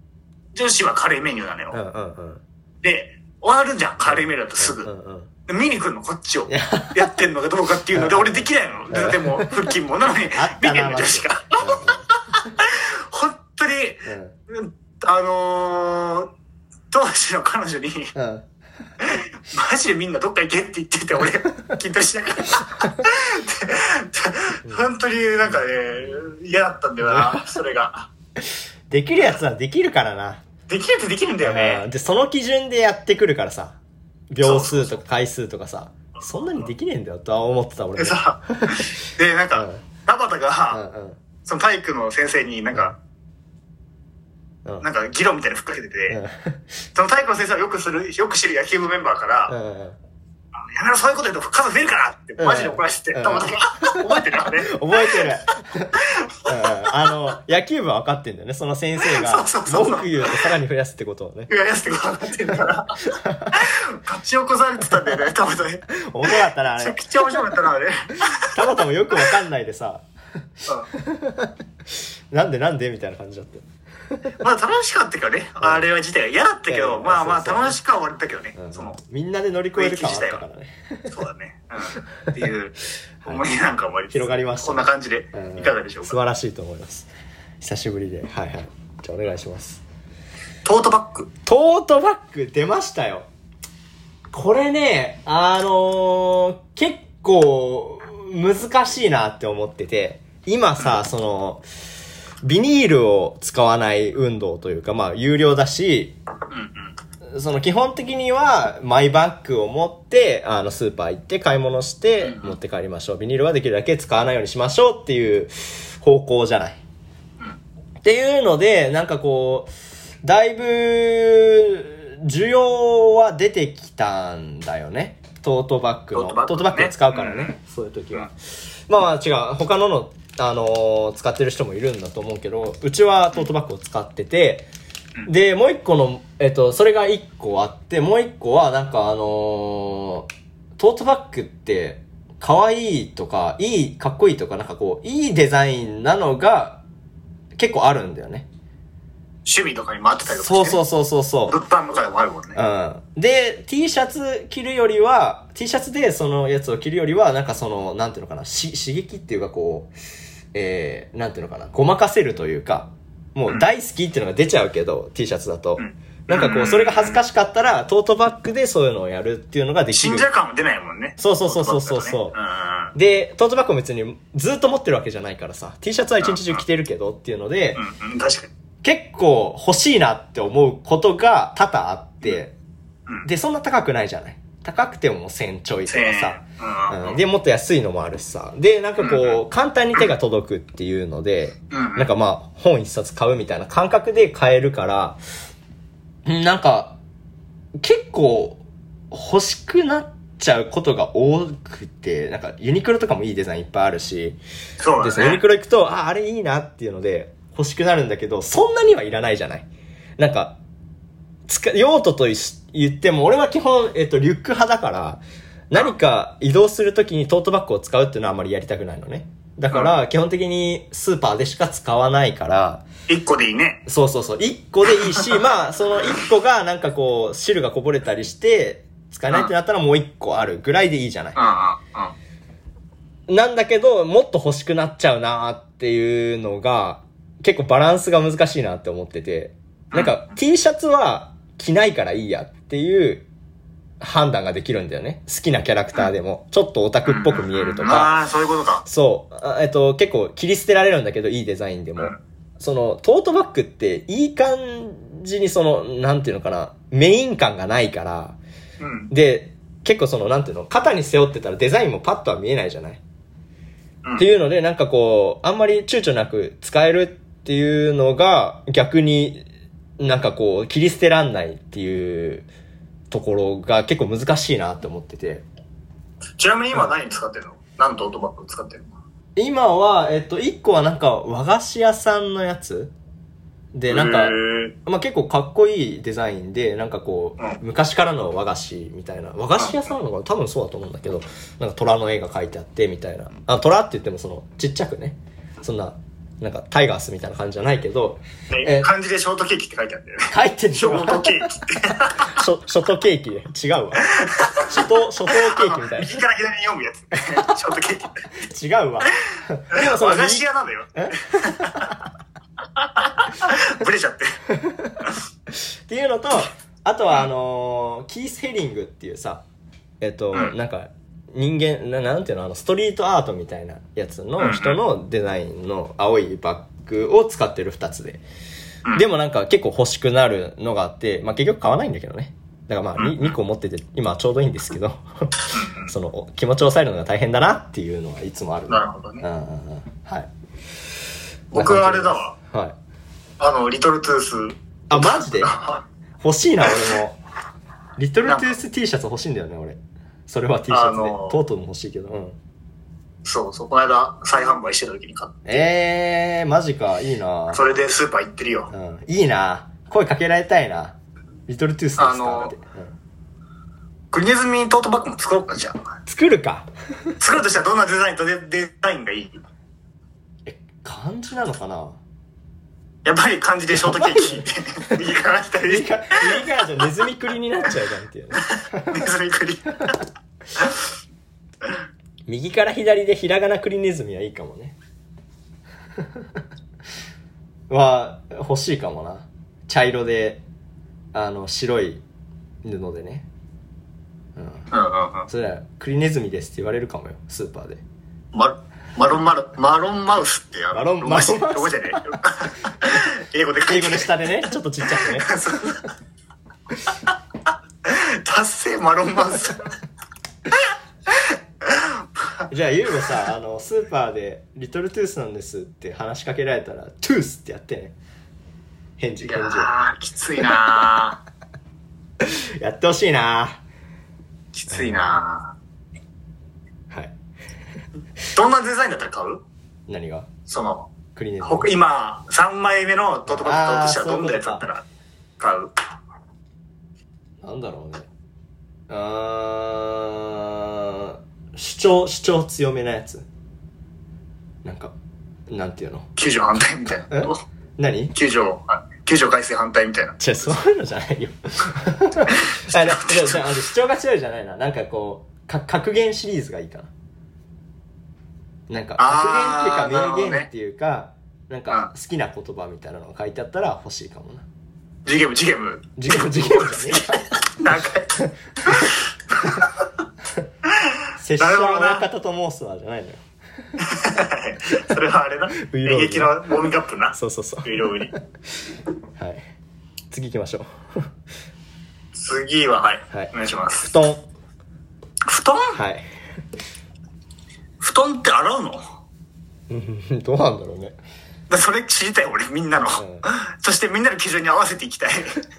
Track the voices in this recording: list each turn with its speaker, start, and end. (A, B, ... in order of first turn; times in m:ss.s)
0:00.5-0:01.8 A
0:01.7-0:02.4 B
0:02.8-0:04.9 A
0:04.0-0:05.3 B
0:05.5-0:16.3 A
0:06.5-0:07.1 B
0:07.9-0:09.7 B
0:10.3-0:12.1 B
0:14.0-0:14.3 B
0:16.9-0:18.1 A
0:18.1-0:18.5 B
0:19.0-0:28.1 A
0:25.4-0:26.2 B
0:27.0-0:27.6 B
0:28.4-0:30.4 B
0:30.7-0:31.8 A
0:31.4-0:33.8 B
0:34.3-0:38.8 B
0:34.4-0:35.0 A
0:38.0-0:40.8 A
0:39.5-0:39.8 B
0:40.7-0:41.2 B
0:41.4-0:43.0 A
0:44.8-0:46.2 A
0:46.1-0:46.6 B
0:46.9-0:49.5 A
0:49.5-0:50.0 B
0:50.6-0:55.3 A
0:52.4-1:01.5 B
0:56.0-0:57.1 A
0:59.0-1:00.5 A
1:01.5-1:08.5 A
1:03.2-1:03.6 B
1:05.9-1:07.6 B
1:08.4-1:10.0 B
1:10.9-1:14.3 B
1:14.4-1:19.0 A
1:15.6-1:15.9 B
1:16.7-1:17.8 B
1:18.6-1:21.1 B
1:19.7-1:20.4 A
1:21.1-1:26.2 A
1:24.1-1:27.1 B
1:27.6-1:29.8 B
1:30.6-1:31.3 A
1:31.4-1:33.3 B
1:34.3-1:41.6 B
1:42.4-1:46.2 B
1:46.5-1:46.9 A
1:47.2-1:56.8 B
1:52.2-1:52.5 A
1:58.0-1:59.7 B
2:00.2-2:08.3 B
2:06.1-2:07.6 A
2:08.9-2:14.7 B
2:15.2-2:26.8 B
2:27.6-2:28.5 B
2:29.4-2:30.8 A
2:30.3-2:31.6 B
2:31.5-2:32.6 A
2:32.6-2:39.9 B
2:40.5-2:50.3 B
2:45.8-2:47.2 A
2:49.9-2:52.9 A
2:51.2-2:52.4 B
2:52.9-2:57.8 B
2:56.2-2:56.6 A
2:57.8-2:58.5 A
2:58.8-3:02.5 B
3:03.2-3:15.2 B
3:05.9-3:07.2 A
3:09.0-3:09.4 A
3:11.7-3:12.1 A
3:16.2-3:17.0 B
3:17.8-3:24.4 B
3:24.8-3:25.4 A
3:25.0-3:30.6 B
3:31.5-3:42.8 B
3:43.1-3:43.8 A
3:43.8-3:51.4 B
3:45.0-3:45.3 A
3:51.4-3:52.1 A
3:53.3-4:03.3 B
3:59.9-4:00.3 A
4:04.0-4:08.2 B
4:07.0-4:08.8 A
4:08.8-4:18.4 B
4:18.8-4:19.1 A
4:19.1-4:23.0 B
4:24.2-4:29.4 B
4:30.0-4:32.5 B
4:33.1-4:35.4 B
4:36.4-4:38.9 A
4:39.4-4:42.9 B
4:43.7-4:58.9 B
4:43.9-4:44.7 A
4:49.6-4:49.9 A
4:58.5-5:02.4 A
5:00.3-5:01.5 B
5:02.2-5:06.2 B
5:04.0-5:08.2 A
5:08.4-5:12.0 B
5:09.7-5:12.0 A
5:12.8-5:14.4 A
5:14.5-5:19.4 B
5:20.0-5:28.2 B
5:24.4-5:24.8 A
5:28.9-5:40.3 B
5:33.0-5:33.3 A
5:35.5-5:35.9 A
5:38.7-5:39.2 A
5:41.5-5:42.3 A
5:41.5-5:42.8 B
5:43.4-5:45.8 A
5:44.9-5:45.6 B
5:46.2-5:47.2 B
5:48.0-5:52.4 B
5:48.2-5:48.6 A
5:50.7-5:51.4 A
5:53.2-5:55.3 A
5:55.4-5:57.6 B
5:57.5-5:58.7 A
5:58.7-6:01.0 B
6:01.5-6:02.9 B
6:02.0-6:02.5 A
6:04.1-6:05.9 A
6:06.0-6:07.2 B
6:07.2-6:09.4 A
6:10.4-6:12.0 B
6:13.0-6:16.4 A
6:13.7-6:15.0 B
6:15.6-6:19.0 B
6:18.4-6:20.0 A
6:22.3-6:24.8 B
6:26.0-6:26.4 B
6:27.7-6:30.4 B
6:31.1-6:32.0 B
6:32.6-6:33.3 B
6:34.4-6:34.7 B
6:34.7-6:35.3 A
6:35.3-6:37.8 B
6:38.3-6:44.1 A
6:40.7-6:41.9 B
6:43.7-6:45.7 B
6:44.8-6:45.9 A
6:47.8-6:49.7 A
6:51.1-6:52.4 A
6:52.5-6:57.9 B
6:59.0-6:59.7 B
6:59.2-7:01.2 A
7:02.2-7:03.6 B
7:04.5-7:05.5 A
7:04.7-7:05.2 B
7:06.9-7:07.1 B
7:08.3-7:09.4 A
7:09.9-7:10.3 B
7:10.5-7:10.9 A
7:11.1-7:11.7 B
7:11.4-7:14.8 A
7:13.3-7:14.7 B
7:15.4-7:15.7 A
7:17.4-7:18.1 B
7:18.9-7:23.2 B
7:24.6-7:24.9 B
7:25.5-7:26.1 B
7:26.2-7:27.4 A
7:27.1-7:28.1 B
7:28.1-7:30.2 A
7:30.2-7:36.9 B
7:32.4-7:33.4 A
7:38.7-7:44.4 B
7:39.0-7:40.5 A
7:45.0-7:49.7 A
7:46.0-7:47.3 B
7:48.2-7:48.9 B
7:50.7-7:52.0 A
7:51.2-7:53.2 B
7:53.8-7:58.1 A
7:55.6-7:56.4 B
7:57.1-7:58.2 B
7:59.2-7:59.5 B
8:00.1-8:01.1 B
8:02.1-8:03.9 A
8:03.8-8:04.3 B
8:05.3-8:05.8 A
8:05.7-8:06.1 B
8:07.8-8:08.9 A
8:09.7-8:11.0 B
8:11.5-8:15.4 A
8:12.8-8:13.2 B